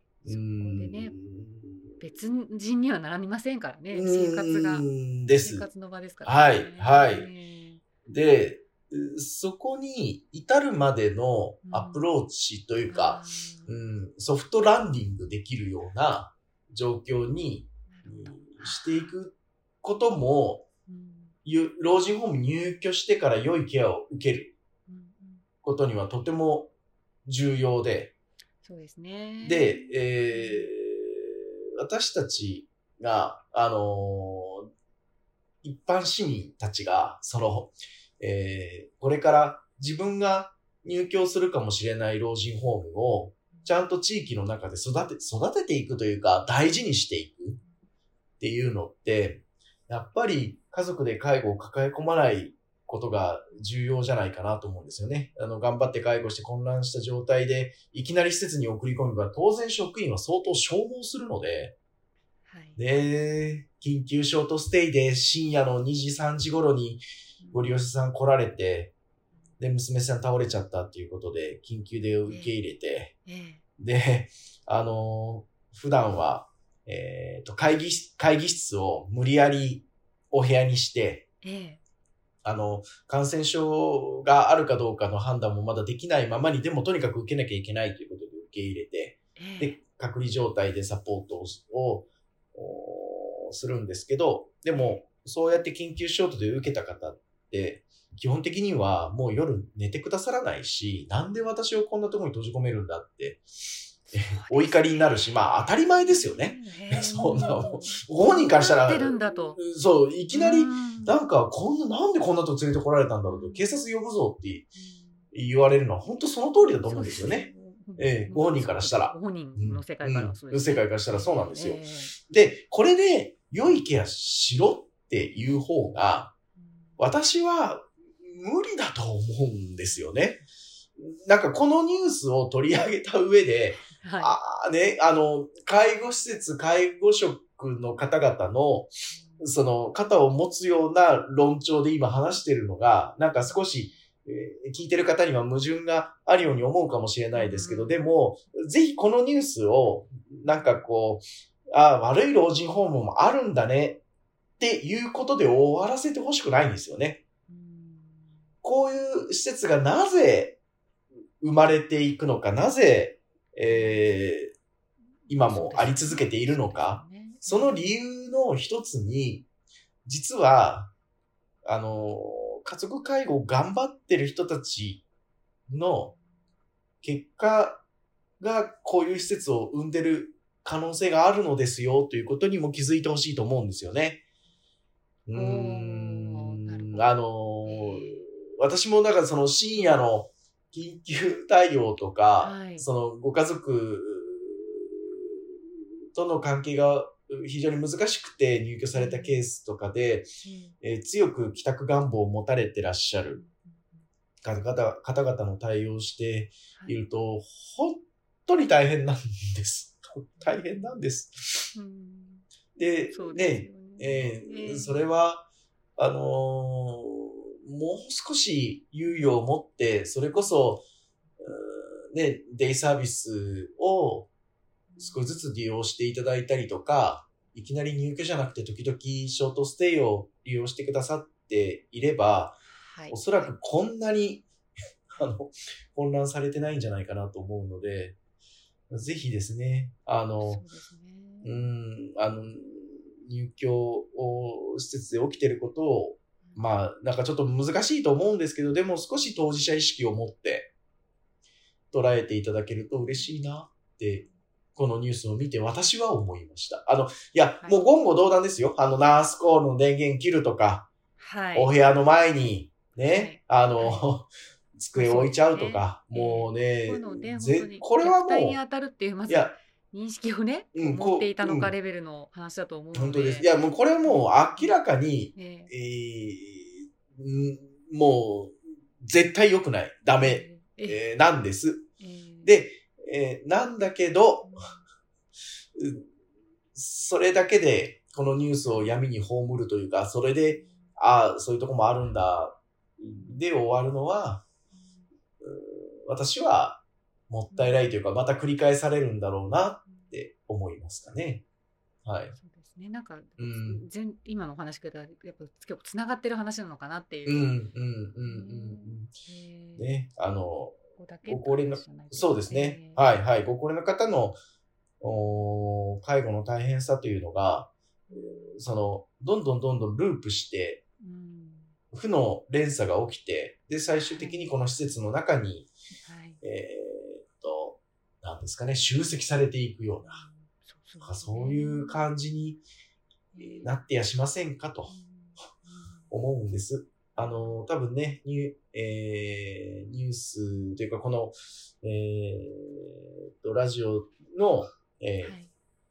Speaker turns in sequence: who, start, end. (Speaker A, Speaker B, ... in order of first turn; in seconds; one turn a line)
Speaker A: 0.2-1.9
Speaker B: 0.3-1.1
Speaker B: 2.0-7.8
Speaker A: 3.9-5.7
Speaker A: 6.2-7.3
Speaker A: 8.1-20.6
Speaker B: 11.7-12.1
Speaker B: 12.9-13.8
Speaker B: 17.9-19.1
Speaker B: 20.9-21.4
Speaker A: 21.4-24.5
Speaker B: 24.9-25.4
Speaker A: 25.6-26.7
Speaker A: 27.2-28.1
Speaker B: 28.6-30.8
Speaker A: 29.4-34.7
Speaker A: 35.6-47.6
Speaker A: 48.4-61.8
Speaker B: 62.5-62.8
Speaker A: 62.8-68.9
Speaker B: 67.4-67.9
Speaker A: 69.6-73.1
Speaker B: 72.3-72.6
Speaker B: 73.2-73.6
Speaker A: 73.8-81.2
Speaker B: 81.4-81.8
Speaker A: 82.4-103.4
Speaker B: 89.4-89.8
Speaker B: 94.7-95.0
Speaker A: 104.1-114.7
Speaker B: 104.1-109.6
Speaker B: 110.3-111.1
Speaker B: 113.2-113.7
Speaker B: 114.8-115.1
Speaker A: 115.3-117.5
Speaker B: 116.8-122.1
Speaker A: 118.0-126.3
Speaker B: 126.6-127.0
Speaker A: 127.0-130.4
Speaker A: 131.0-154.0
Speaker B: 133.9-134.3
Speaker B: 139.1-139.5
Speaker B: 147.3-148.0
Speaker B: 150.4-150.8
Speaker A: 154.6-157.2
Speaker B: 157.5-158.3
Speaker A: 158.6-160.6
Speaker A: 161.4-164.5
Speaker B: 163.7-164.3
Speaker B: 165.3-167.9
Speaker A: 165.3-169.5
Speaker A: 170.0-170.9
Speaker A: 171.6-175.0
Speaker A: 175.7-176.1
Speaker A: 177.0-177.8
Speaker A: 178.4-184.2
Speaker A: 185.2-195.2
Speaker B: 185.3-188.2
Speaker B: 192.4-192.8
Speaker A: 196.1-200.3
Speaker B: 198.9-199.5
Speaker B: 200.4-200.8
Speaker A: 200.8-203.4
Speaker B: 203.4-203.7
Speaker A: 204.4-211.7
Speaker B: 211.7-212.4
Speaker A: 212.8-220.8
Speaker B: 213.1-215.1
Speaker A: 221.4-224.3
Speaker B: 224.9-225.3
Speaker A: 225.0-232.6
Speaker B: 232.7-233.5
Speaker A: 233.1-234.5
Speaker A: 235.1-238.2
Speaker A: 238.9-240.6
Speaker B: 240.4-241.6
Speaker A: 241.4-250.7
Speaker A: 251.9-260.9
Speaker B: 257.6-257.9
Speaker B: 261.2-261.7
Speaker A: 261.5-268.6
Speaker B: 263.0-264.1
Speaker B: 264.9-273.5
Speaker A: 269.3-269.5
Speaker A: 270.8-271.7
Speaker A: 272.9-281.9
Speaker B: 274.0-274.8
Speaker B: 275.3-275.7
Speaker B: 280.1-281.0
Speaker B: 282.0-282.5
Speaker A: 282.4-284.6
Speaker B: 284.4-284.8
Speaker A: 285.8-286.0
Speaker A: 286.8-294.4
Speaker B: 288.7-289.1
Speaker A: 295.4-301.4
Speaker B: 297.5-298.0
Speaker A: 302.0-302.4
Speaker B: 302.4-307.5
Speaker A: 303.4-303.8
Speaker A: 307.2-309.1
Speaker B: 308.3-310.1
Speaker A: 309.8-314.4
Speaker B: 310.9-313.1
Speaker A: 315.0-320.8
Speaker B: 318.1-318.6
Speaker B: 321.0-321.7
Speaker A: 321.9-325.7
Speaker B: 323.9-324.5
Speaker B: 326.0-326.4
Speaker A: 326.4-330.2
Speaker B: 330.0-332.1
Speaker A: 331.0-332.6
Speaker B: 333.3-333.9
Speaker A: 333.4-334.9
Speaker B: 334.9-336.1
Speaker A: 336.1-345.4
Speaker B: 337.2-337.6
Speaker B: 345.2-345.5